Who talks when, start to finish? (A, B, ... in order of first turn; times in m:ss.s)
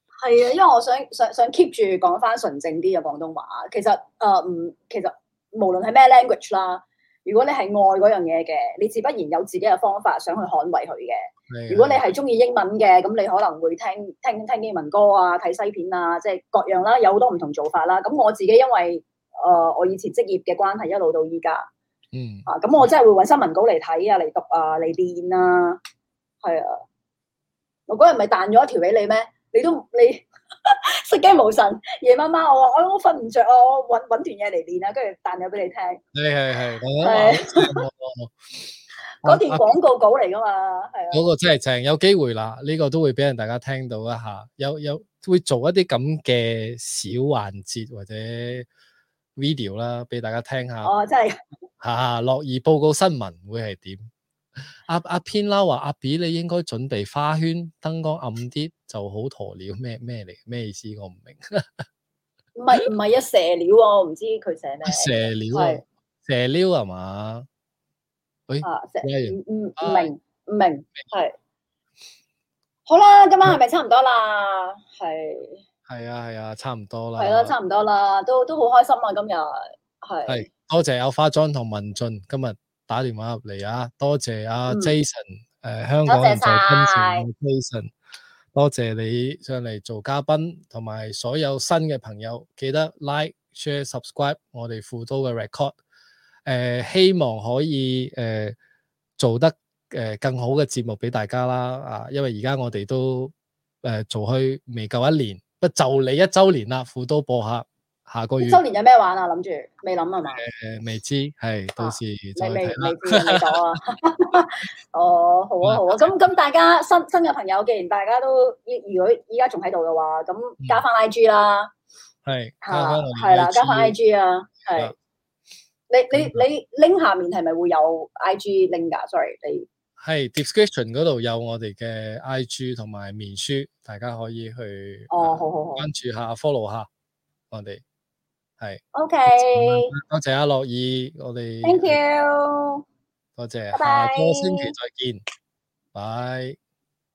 0:00.2-0:21.6 A
0:11.5-0:12.0 B
0:22.1-0:22.5 B
0:22.5-0:25.8 A
0:26.4-0:26.8 A
0:27.9-0:36.0 A
0:36.1-0:38.3 B
0:37.0-0:37.8 A
0:39.2-0:39.8 B
0:39.2-0:41.2 A
0:41.1-0:48.7 B
0:49.4-0:50.9 B
0:50.8-0:51.4 A
0:51.8-0:54.1 B
0:54.9-1:01.8 B
1:02.6-1:05.8 A
1:04.8-1:07.4 B
1:08.5-1:10.1 B
1:08.6-1:11.3 A
1:12.9-1:15.6 A
1:15.9-1:17.5 B
1:17.2-1:20.5 A
1:20.3-1:27.9 B
1:24.7-1:25.0 A
1:26.0-1:27.2 A
1:28.5-1:35.8 B
1:36.4-1:38.6 B
1:39.2-1:48.6 B
1:48.4-1:50.4 A
1:50.3-1:53.6 B
1:51.8-2:01.7 A
1:55.6-1:56.1 B
2:02.2-2:03.9 B
2:02.6-2:04.9 A
2:05.9-2:09.7 A
2:06.1-2:06.4 B
2:10.0-2:16.9 B
2:15.1-2:15.8 A
2:17.5-2:17.8 B
2:18.6-2:22.0 B
2:18.9-2:19.9 A
2:21.6-2:22.8 A
2:23.4-2:25.2 B
2:23.7-2:24.7 A
2:25.9-2:26.6 B